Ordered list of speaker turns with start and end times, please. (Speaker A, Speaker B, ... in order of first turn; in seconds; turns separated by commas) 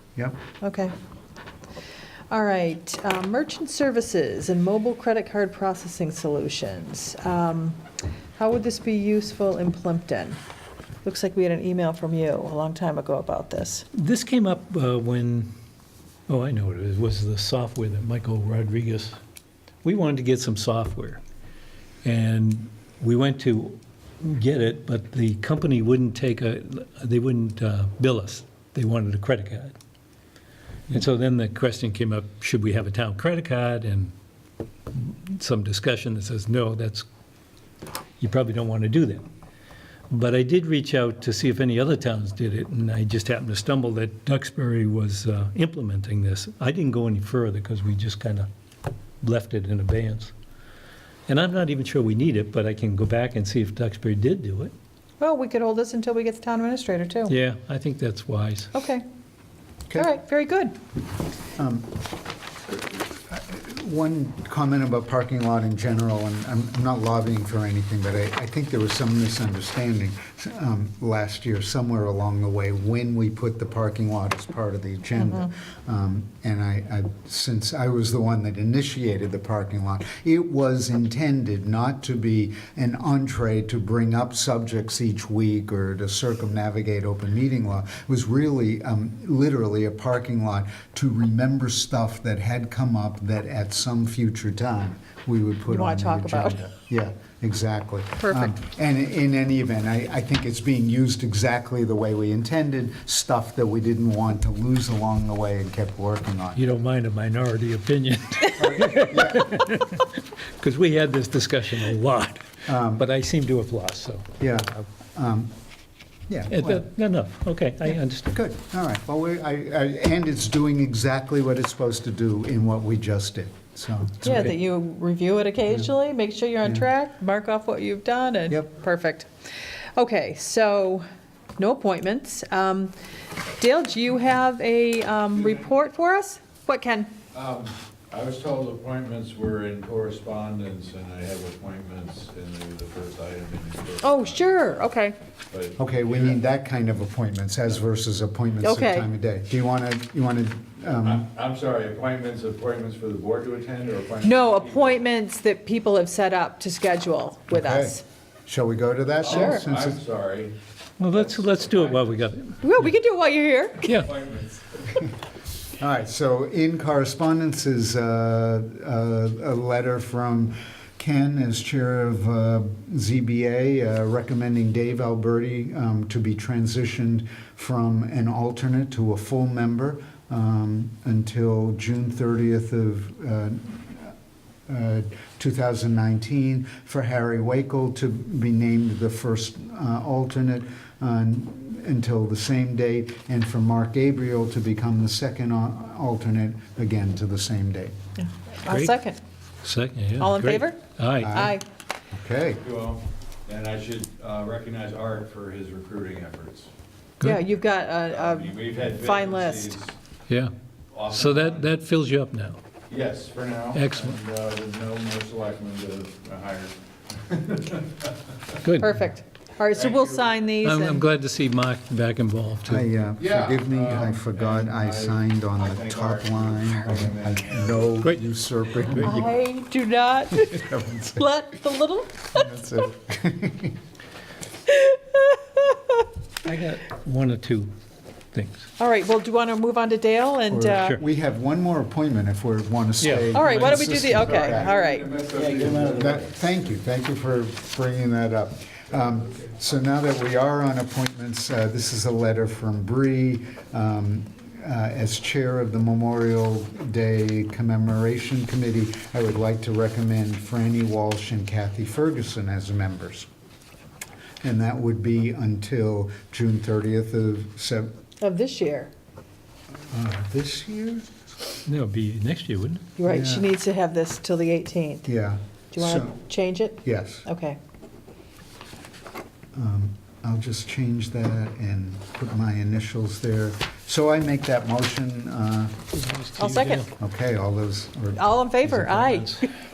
Speaker A: 0.6-0.9, Speaker A: 2.3-7.8, Speaker A: 8.4-10.4, Speaker A: 11.0-13.9, Speaker B: 13.9-15.5, Speaker B: 16.3-19.2, Speaker B: 19.8-21.2, Speaker B: 22.0-29.8, Speaker B: 30.9-34.1, Speaker B: 34.9-37.0, Speaker B: 38.2-39.3, Speaker B: 40.1-48.5, Speaker B: 49.2-50.3, Speaker B: 51.3-54.7, Speaker A: 55.2-57.4, Speaker B: 57.3-58.7, Speaker A: 58.7-59.0, Speaker A: 60.0-60.7, Speaker C: 61.6-62.0, Speaker C: 62.7-106.6, Speaker A: 75.2-75.5, Speaker A: 95.7-96.6, Speaker A: 98.2-98.5, Speaker B: 106.5-114.3, Speaker C: 108.6-109.5, Speaker C: 112.7-113.0, Speaker C: 114.4-115.5, Speaker C: 116.3-116.9, Speaker B: 116.5-118.3, Speaker C: 118.3-124.5, Speaker A: 124.2-129.3, Speaker B: 124.2-124.5, Speaker A: 130.0-131.0, Speaker A: 131.6-132.9, Speaker A: 133.6-137.1, Speaker D: 137.3-144.8, Speaker A: 144.0-145.2, Speaker D: 145.5-146.4, Speaker C: 145.8-151.2, Speaker A: 148.6-149.1, Speaker D: 150.9-155.0, Speaker A: 154.2-158.0, Speaker C: 157.5-160.0, Speaker D: 159.2-162.2, Speaker A: 159.3-159.6, Speaker B: 161.0-162.9, Speaker A: 162.6-163.9, Speaker B: 163.8-164.1, Speaker D: 163.9-164.8, Speaker C: 165.8-184.1, Speaker C: 184.7-197.9, Speaker A: 198.2-199.2, Speaker B: 198.7-198.9, Speaker B: 199.6-201.5, Speaker A: 200.2-201.6, Speaker C: 201.2-201.6, Speaker C: 202.2-202.6, Speaker D: 202.6-206.7, Speaker A: 207.2-209.8, Speaker D: 208.1-209.9, Speaker D: 210.9-211.7, Speaker B: 211.1-212.6, Speaker D: 212.9-218.1, Speaker B: 213.7-214.2, Speaker B: 218.6-219.0, Speaker A: 218.8-221.1, Speaker D: 219.7-220.3, Speaker B: 220.6-222.9, Speaker C: 222.7-229.3, Speaker D: 223.2-228.1, Speaker A: 229.0-232.4, Speaker C: 230.3-231.2, Speaker C: 232.3-233.8, Speaker A: 234.7-236.1, Speaker B: 236.4-237.7, Speaker B: 238.3-238.7, Speaker A: 238.8-241.0, Speaker C: 240.5-244.8, Speaker B: 243.0-244.3, Speaker A: 243.3-245.2, Speaker D: 244.1-246.2, Speaker B: 245.4-246.2, Speaker C: 245.8-263.3, Speaker C: 264.4-267.9, Speaker A: 268.2-268.9, Speaker C: 269.7-271.1, Speaker B: 271.7-272.9, Speaker A: 273.0-275.1, Speaker C: 273.1-273.5, Speaker C: 275.1-276.2, Speaker A: 275.7-277.6, Speaker C: 276.8-277.3, Speaker C: 279.5-285.8, Speaker B: 285.9-286.9, Speaker A: 286.4-286.9, Speaker C: 287.0-288.4, Speaker A: 288.1-289.5, Speaker B: 288.6-289.5